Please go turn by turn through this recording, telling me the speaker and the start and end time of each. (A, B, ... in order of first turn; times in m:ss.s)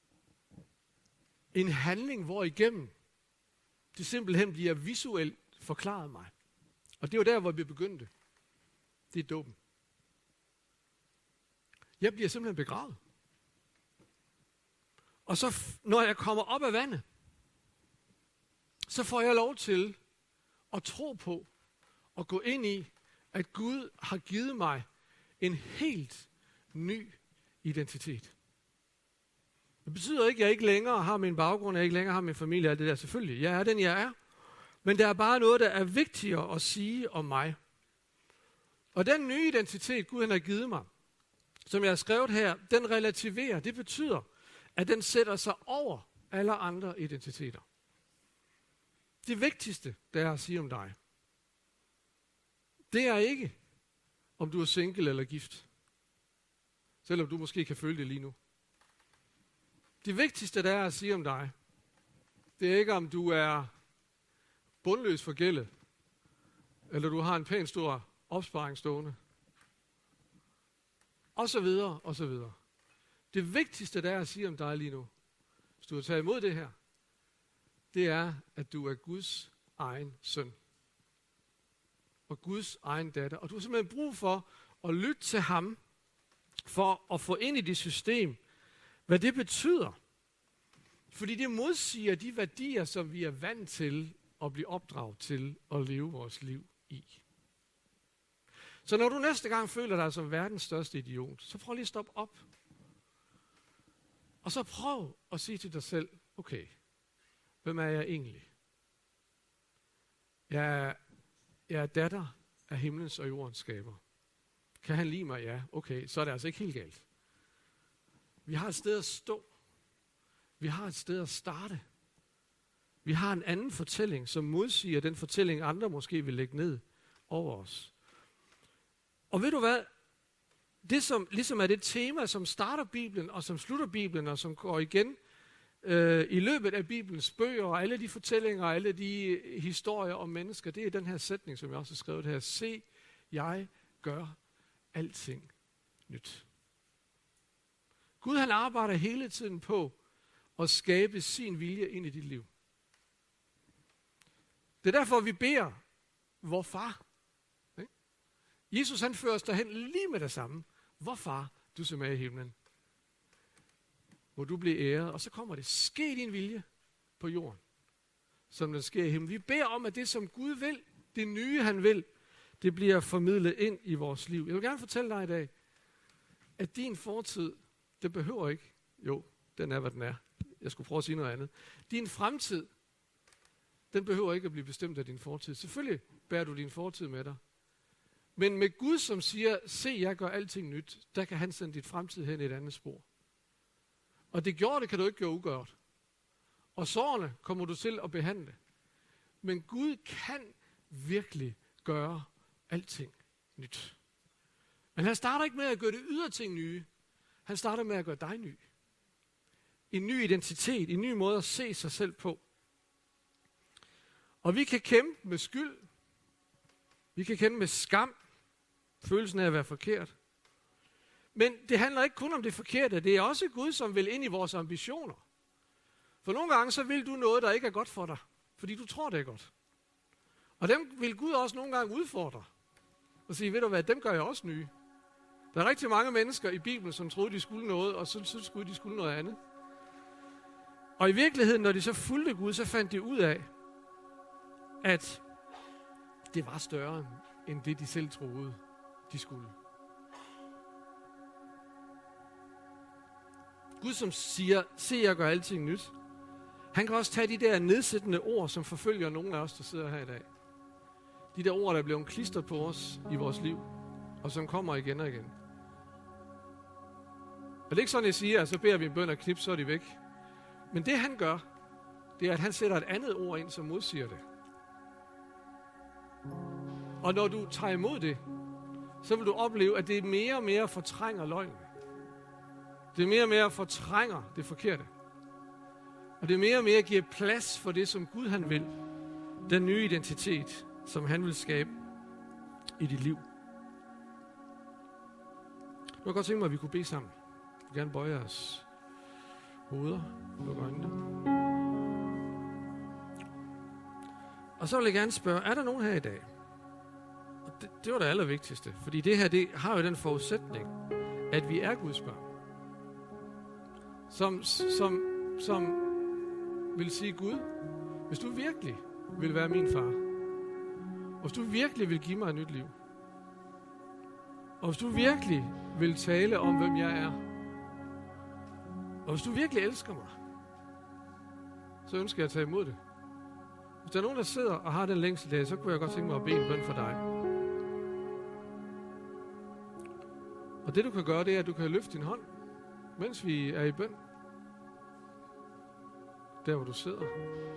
0:01.5-0:02.9 A
0:03.9-0:06.3 A
0:07.0-0:08.1 A
0:09.1-0:09.6 A
0:12.0-0:13.0 A
0:15.2-0:17.0 A
0:18.9-0:20.0 A
0:20.7-0:21.5 A
0:22.1-0:24.8 A
0:25.4-0:28.3 A
0:29.8-0:34.1 A
0:34.8-0:37.6 A
0:38.9-0:40.9 A
0:41.6-0:44.2 A
0:44.8-0:47.6 A
0:49.2-0:51.0 A
0:52.9-0:53.6 A
0:54.4-0:55.7 A
0:57.0-0:58.4 A
1:00.0-1:01.5 A
1:02.6-1:03.7 A
1:04.8-1:05.7 A
1:06.9-1:09.2 A
1:11.4-1:12.6 A
1:13.3-1:15.1 A
1:15.8-1:16.7 A
1:17.9-1:20.5 A
1:22.3-1:25.8 A
1:26.6-1:28.4 A
1:29.1-1:30.0 A
1:31.1-1:37.2 A
1:38.8-1:42.4 A
1:44.4-1:46.7 A
1:47.6-1:48.5 A
1:50.5-1:51.0 A
1:51.7-1:54.0 A
1:54.8-1:57.0 A
1:58.5-1:59.5 A
2:00.6-2:01.8 A
2:03.0-2:07.9 A
2:09.3-2:09.9 A
2:10.8-2:15.2 A
2:15.8-2:24.4 A
2:24.9-2:25.5 A
2:26.1-2:26.4 A
2:28.2-2:30.0 A
2:30.6-2:32.5 A
2:34.8-2:35.8 A
2:36.4-2:37.0 A
2:38.7-2:42.5 A
2:44.4-2:46.6 A
2:47.2-2:47.6 A
2:48.5-2:52.0 A
2:52.6-2:55.5 A
2:56.6-3:02.7 A
3:03.9-3:07.4 A
3:08.4-3:13.0 A
3:14.3-3:15.7 A
3:16.8-3:18.6 A
3:19.4-3:24.0 A
3:24.9-3:26.9 A
3:27.4-3:28.6 A
3:29.9-3:32.4 A
3:34.4-3:35.8 A
3:37.1-3:38.1 A
3:39.0-3:40.1 A
3:41.3-3:45.2 A
3:46.2-3:49.5 A
3:50.6-3:52.5 A
3:53.3-3:54.7 A
3:55.5-3:59.4 A
4:01.0-4:03.5 A
4:04.8-4:05.2 A
4:06.3-4:08.6 A
4:09.1-4:09.5 A
4:13.8-4:15.9 A
4:16.7-4:20.3 A
4:21.3-4:23.6 A
4:24.2-4:25.3 A
4:27.7-4:30.0 A
4:30.7-4:31.4 A
4:32.2-4:34.2 A
4:37.0-4:38.2 A
4:39.0-4:41.7 A
4:42.9-4:44.9 A
4:46.2-4:48.7 A
4:49.4-4:51.7 A
4:52.8-4:53.2 A
4:56.0-4:57.1 A
4:57.7-4:58.6 A
4:59.7-5:01.0 A
5:04.6-5:06.3 A
5:07.4-5:10.7 A
5:11.3-5:12.2 A
5:14.1-5:15.9 A
5:16.7-5:17.5 A
5:18.1-5:20.0 A
5:21.2-5:22.7 A
5:24.6-5:27.2 A
5:29.0-5:30.2 A
5:31.8-5:32.8 A
5:33.8-5:37.0 A
5:40.6-5:42.3 A
5:43.0-5:44.0 A
5:46.4-5:47.2 A